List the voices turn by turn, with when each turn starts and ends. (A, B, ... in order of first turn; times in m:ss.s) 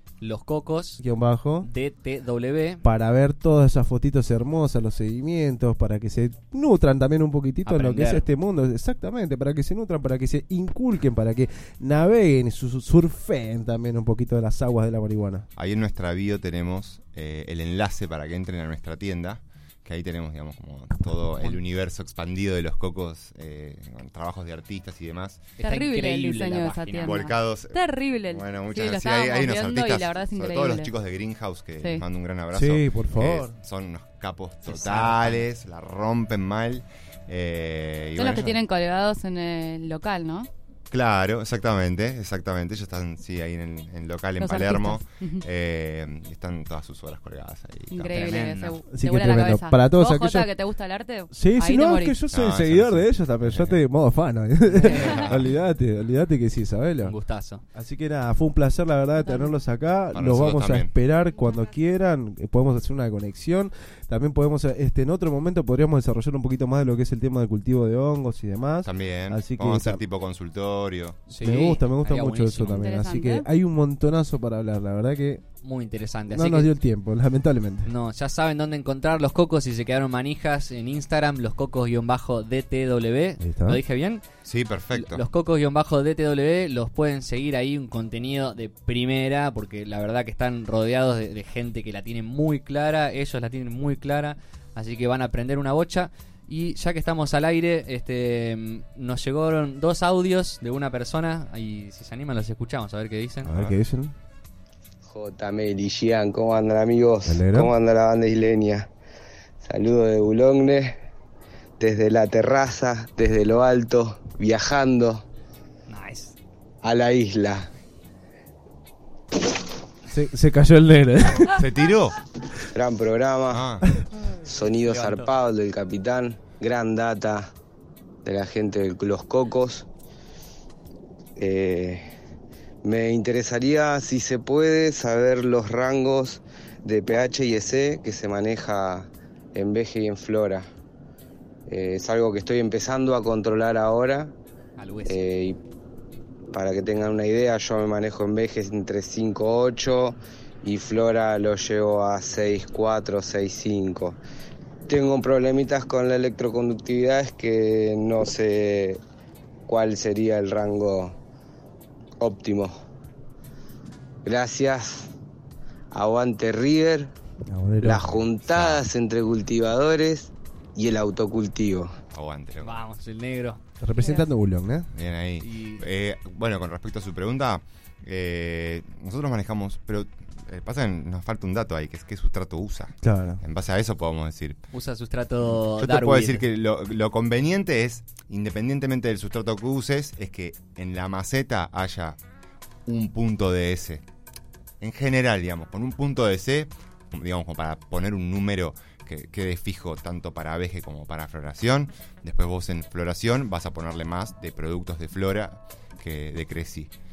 0:00.2-0:01.0 A
0:01.0-0:01.7 B
0:01.6-0:02.8 A
0:02.8-0:15.5 B
0:07.6-0:08.2 A
0:15.6-0:25.4 C
0:25.6-0:27.2 A
0:25.6-0:30.9 D
0:27.0-0:38.6 C
0:32.5-0:33.5 B
0:34.6-0:35.4 A
0:38.2-0:40.5 D
0:40.9-0:48.3 C
0:44.4-0:45.4 D
0:47.9-0:52.2 D
0:48.1-0:48.8 A
0:48.9-0:50.5 B
0:51.3-0:57.2 B
0:52.3-0:53.8 C
0:54.8-0:55.3 A
0:54.9-0:55.4 C
0:57.0-0:57.6 A
0:57.7-1:10.0 B
0:59.2-0:59.5 D
1:00.1-1:00.9 C
1:08.8-1:11.3 C
1:11.3-1:12.8 A
1:11.4-1:15.4 B
1:12.7-1:13.4 D
1:15.6-1:16.7 A
1:16.3-1:17.9 B
1:17.8-1:24.2 A
1:23.4-1:23.8 B
1:24.4-1:25.2 C
1:24.9-1:43.5 A
1:43.4-1:44.1 B
1:45.1-1:48.9 E
1:47.2-1:47.7 B
1:49.6-1:51.0 E
1:51.8-1:55.2 E
1:55.9-1:56.4 A
1:56.8-1:57.7 E
2:00.1-2:01.7 B
2:01.4-2:02.2 C
2:02.7-2:03.7 E
2:03.5-2:03.9 C
2:04.3-2:07.5 E
2:04.9-2:05.2 A
2:08.2-2:09.9 E
2:11.4-2:12.0 E
2:12.8-2:20.7 E
2:21.7-2:24.3 E
2:24.8-2:25.2 A
2:25.0-2:25.6 E
2:26.5-2:34.2 E
2:34.9-2:39.0 E
2:39.7-2:41.2 E
2:42.2-2:42.7 E
2:44.2-2:45.1 E
2:45.9-2:47.1 E
2:47.5-2:48.2 B
2:47.8-2:51.9 E
2:48.5-2:48.8 C
2:52.1-2:52.8 C
2:52.6-2:53.6 A
2:53.8-2:54.9 B
2:54.0-2:54.2 D
2:54.9-3:04.6 C
2:55.4-2:55.8 A
3:03.0-3:03.4 B
3:04.7-3:06.4 A
3:05.4-3:12.2 C
3:12.8-3:14.0 C
3:14.8-3:26.9 C